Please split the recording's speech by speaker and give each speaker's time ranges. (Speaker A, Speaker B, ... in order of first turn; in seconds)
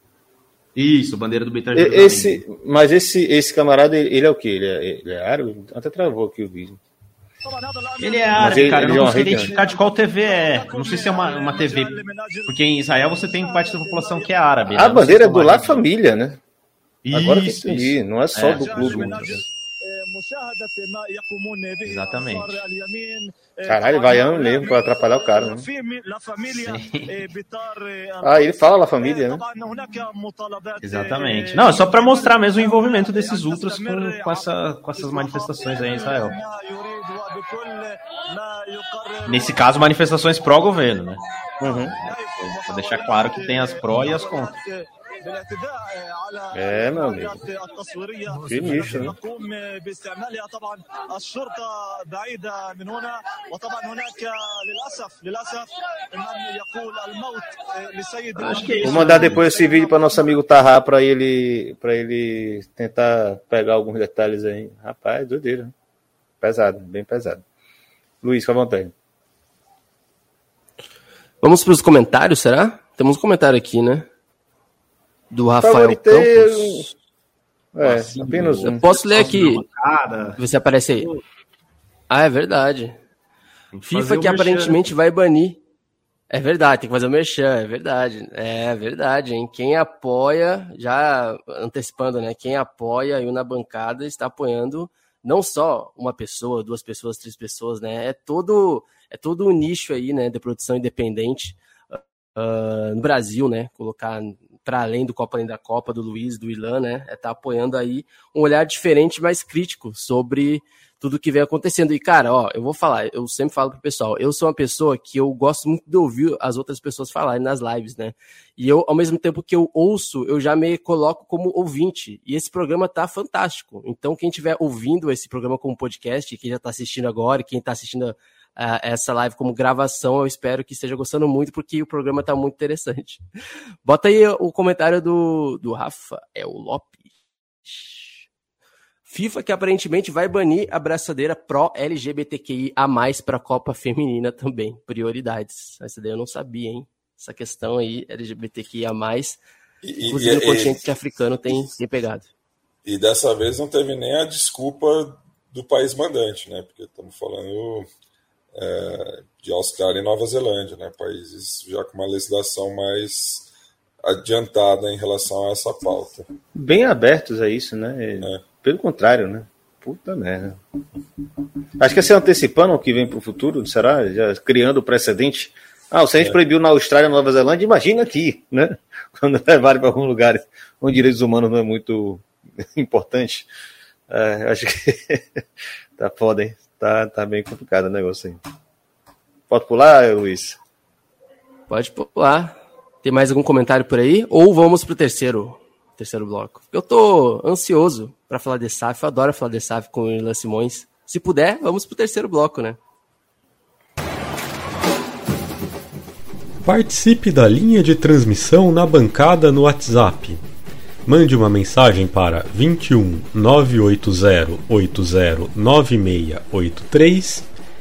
Speaker A: 0.8-2.4, 8.0-15.8, 17.1-19.5, 21.9-22.6, 26.5-27.2, 30.8-36.4, 39.3-41.2, 42.6-44.6, 58.4-59.5, 77.8-80.4, 83.7-84.8
Speaker B: 1.7-6.8, 8.3-9.5, 14.7-16.4, 17.1-19.4, 23.7-25.6, 28.2-29.4, 41.6-41.9, 46.5-47.4, 48.4-49.2, 58.8-65.7, 66.4-67.4, 68.2-68.9, 75.6-76.9, 77.7-78.8, 166.6-170.6, 171.8-183.5, 184.1-185.4, 186.0-188.4, 189.5-190.6
Speaker C: 7.4-14.9, 18.4-39.6, 41.8-60.4
Speaker D: 71.4-74.1, 75.3-76.9, 78.6-79.6, 80.4-81.1, 82.1-83.0, 83.9-85.6, 86.3-133.2, 133.8-137.1, 137.7-138.1, 139.1-149.4, 150.1-152.3, 191.7-202.8
Speaker E: 149.8-150.8, 152.8-157.9, 158.6-163.5, 164.0-166.3
Speaker F: 206.6-210.4, 211.1-217.5